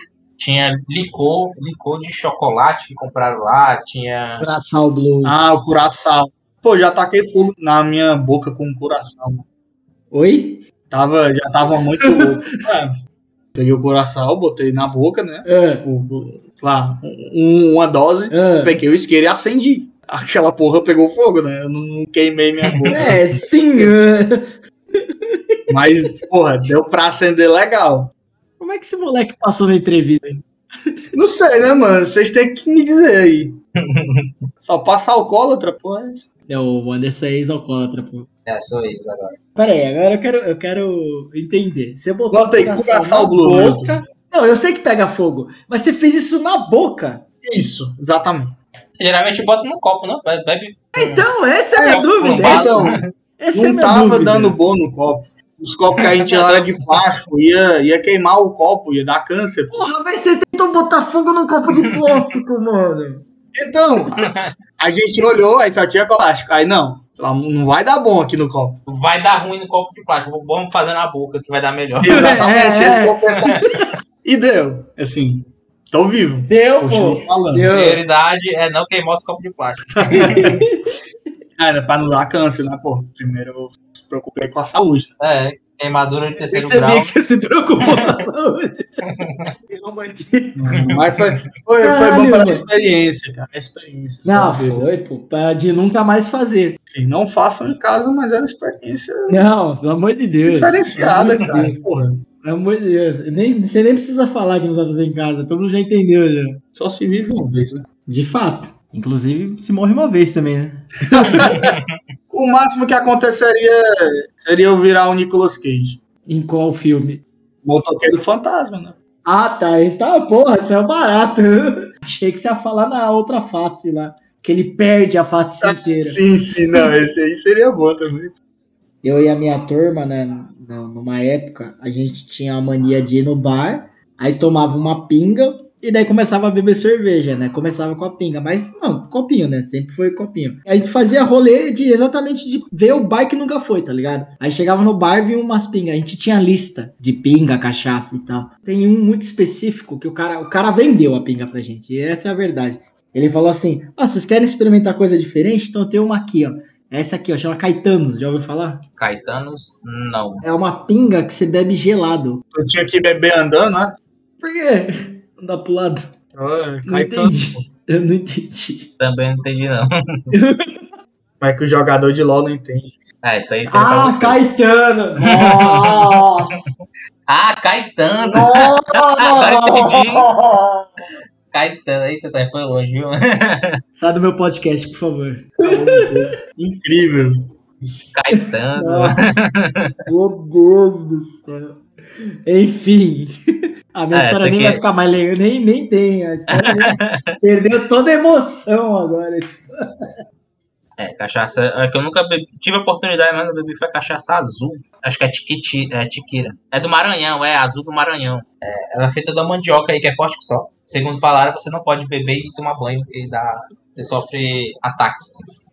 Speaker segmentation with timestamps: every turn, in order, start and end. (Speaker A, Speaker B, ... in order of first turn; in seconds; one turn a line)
Speaker A: 0.4-4.5
Speaker B: 4.4-5.4
Speaker C: 5.2-9.4
Speaker B: 10.1-10.7
Speaker C: 10.9-12.9
Speaker B: 12.0-12.4
Speaker C: 13.6-23.1
Speaker B: 15.4-15.9
Speaker B: 18.3-18.8
Speaker A: 22.7-23.1
Speaker B: 22.9-25.6
Speaker C: 25.7-28.1
Speaker B: 28.6-30.9
Speaker C: 31.1-33.6
Speaker A: 33.8-34.3
Speaker C: 34.6-36.3
Speaker B: 36.5-38.3
Speaker A: 38.5-39.4
Speaker B: 39.6-47.2
Speaker C: 42.3-44.0
Speaker C: 47.4-48.5
Speaker A: 49.0-51.3
Speaker B: 51.0-54.6
Speaker C: 51.8-53.0
Speaker A: 51.8-53.1
Speaker C: 53.5-59.8
Speaker A: 56.0-57.0
Speaker B: 59.7-63.2
Speaker C: 63.5-64.2
Speaker A: 64.2-64.4
Speaker C: 64.8-68.8
Speaker A: 68.9-72.3
Speaker C: 72.0-73.5
Speaker B: 72.1-73.9
Speaker C: 74.2-77.7
Speaker B: 76.5-78.0
Speaker A: 77.7-80.5
Speaker C: 80.0-80.6
Speaker B: 80.1-81.0
Speaker C: 81.6-85.1
Speaker A: 85.2-87.2
Speaker B: 86.4-89.0
Speaker A: 89.1-89.5
Speaker B: 89.7-90.8
Speaker C: 90.6-94.9
Speaker A: 90.7-91.0
Speaker B: 91.8-92.7
Speaker B: 94.2-96.8
Speaker C: 96.9-99.4
Speaker B: 99.3-101.8
Speaker C: 100.5-102.2
Speaker B: 102.4-106.6
Speaker C: 106.8-107.9
Speaker B: 108.1-111.7
Speaker C: 111.1-111.7
Speaker A: 111.3-111.8
Speaker C: 112.3-113.8
Speaker C: 114.3-116.0
Speaker B: 116.3-117.2
Speaker C: 117.6-119.0
Speaker B: 119.2-126.2
Speaker C: 125.6-128.3
Speaker B: 129.0-158.9
Speaker A: 159.0-160.4
Speaker B: 160.4-162.4
Speaker C: 162.5-164.0
Speaker B: 164.4-166.1
Speaker C: 166.3-167.6
Speaker B: 166.9-168.9
Speaker A: 169.0-170.3
Speaker B: 170.3-170.8
Speaker C: 171.4-173.1
Speaker A: 173.2-174.4
Speaker B: 173.7-176.7
Speaker A: 175.2-176.7
Speaker A: 177.3-180.3
Speaker B: 178.2-180.9
Speaker A: 181.5-183.8
Speaker B: 183.9-186.3
Speaker C: 185.6-188.1
Speaker A: 188.1-189.9
Speaker B: 188.3-189.2
Speaker B: 190.1-191.8
Speaker B: 192.4-193.4
Speaker B: 193.9-199.7
Speaker A: 194.1-194.8
Speaker A: 196.5-197.3
Speaker A: 201.0-215.5